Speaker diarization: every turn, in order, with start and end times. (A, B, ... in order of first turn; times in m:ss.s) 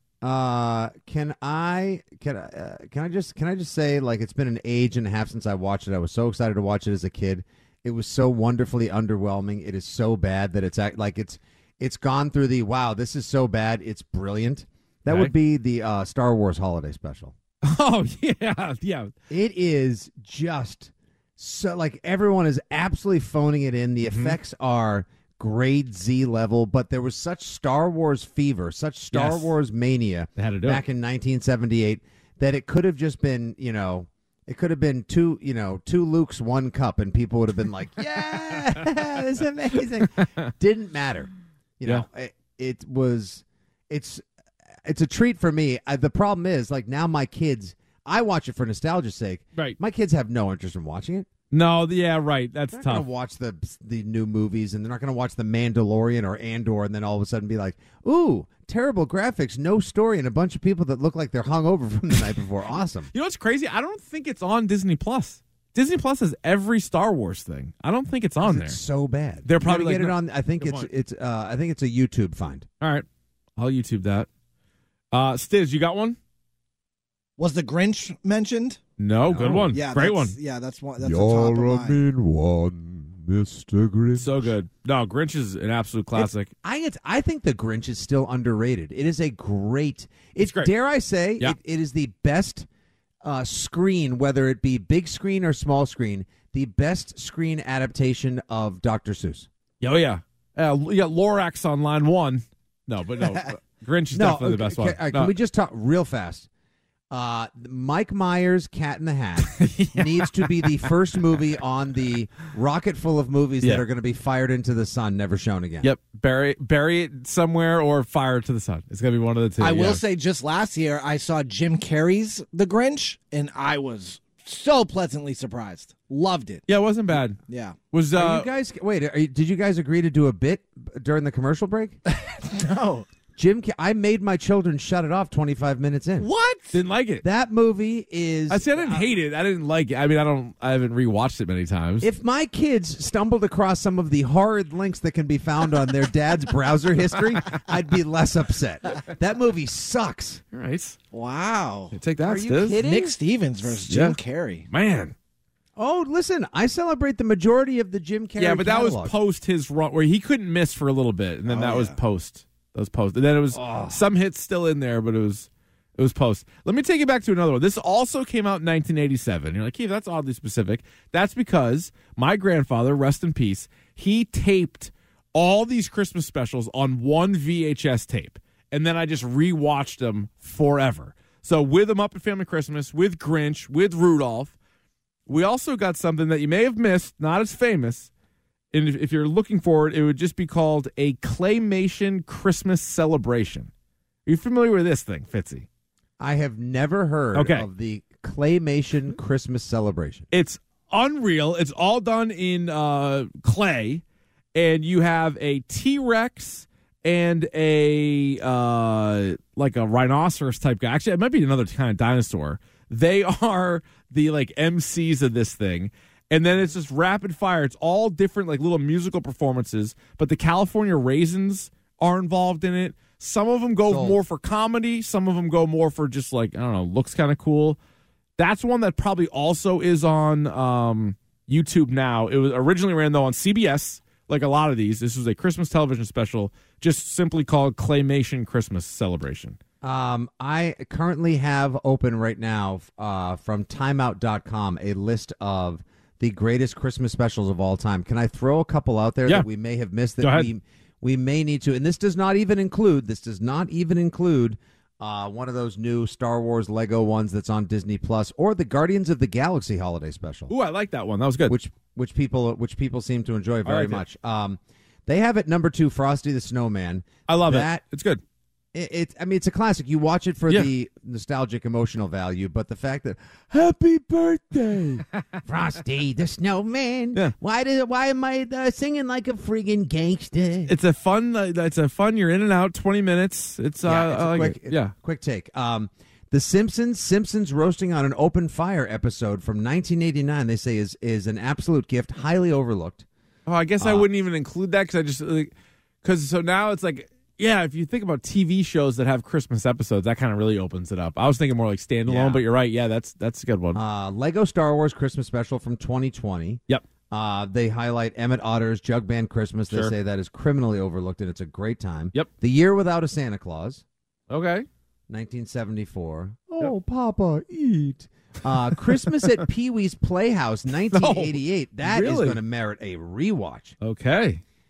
0:00.2-0:17.4 A
0:15.1-0:15.3 B
0:17.6-0:19.1 B
0:19.3-0:41.3 A
0:24.1-0:24.4 B
0:29.1-0:29.5 B
0:30.4-0:30.8 B
0:40.2-0:40.4 B
0:41.8-0:44.2 A
0:44.8-0:51.3 A
0:51.5-0:53.0 B
0:52.7-1:03.1 A
1:03.1-1:08.8 B
1:08.4-1:12.7 A
1:09.4-1:10.9 B
1:12.8-1:13.0 B
1:13.6-1:14.3 B
1:15.1-1:16.2 B
1:17.4-1:18.8 C
1:19.0-1:20.4 B
1:19.3-1:19.8 A
1:19.7-1:22.0 C
1:21.0-1:24.5 A
1:24.2-1:26.5 B
1:26.2-1:32.7 A
1:30.4-1:30.7 B
1:33.2-1:39.5 A
1:39.8-1:45.3 B
1:44.1-1:46.5 A
1:47.1-1:55.9 A
1:49.4-1:50.8 B
1:55.8-2:00.0 B
1:59.6-2:06.6 C
2:06.7-2:07.4 B
2:07.5-2:07.8 C
2:07.9-2:08.5 B
2:08.1-2:12.0 A
2:12.2-2:13.1 C
2:13.4-2:16.3 A
2:16.2-2:16.8 C
2:16.7-2:17.2 B
2:17.2-2:19.0 A
2:18.5-2:22.1 B
2:22.0-2:30.4 A
2:30.5-2:31.0 B
2:31.1-2:32.0 C
2:31.9-2:32.8 B
2:32.2-2:33.2 A
2:32.8-2:34.6 C
2:33.8-2:34.2 B
2:34.7-2:35.1 B
2:35.8-2:39.1 A
2:38.4-3:04.6 B
2:41.4-2:42.0 C
2:43.5-2:44.0 A
3:05.3-3:08.1 B
3:08.7-3:13.7 B
3:14.2-3:15.6 B
3:16.2-3:20.3 A
3:17.3-3:17.7 B
3:20.3-3:24.0 B
3:24.5-3:47.8 B
3:43.8-3:44.2 A
3:48.4-3:59.6 B
3:59.8-4:20.5 A
4:10.2-4:10.5 B
4:20.5-4:21.5 B
4:21.5-4:27.8 A
4:23.6-4:24.0 B
4:27.3-4:28.2 B
4:28.7-4:40.7 A
4:40.6-4:44.9 B
4:43.8-4:53.0 A
4:53.5-4:55.5 B
4:53.8-4:54.1 A
4:56.0-5:03.8 B
5:02.0-5:02.4 A
5:03.7-5:13.8 A
5:14.3-5:14.6 B
5:15.1-5:23.7 A
5:20.9-5:22.4 B
5:23.8-5:24.4 B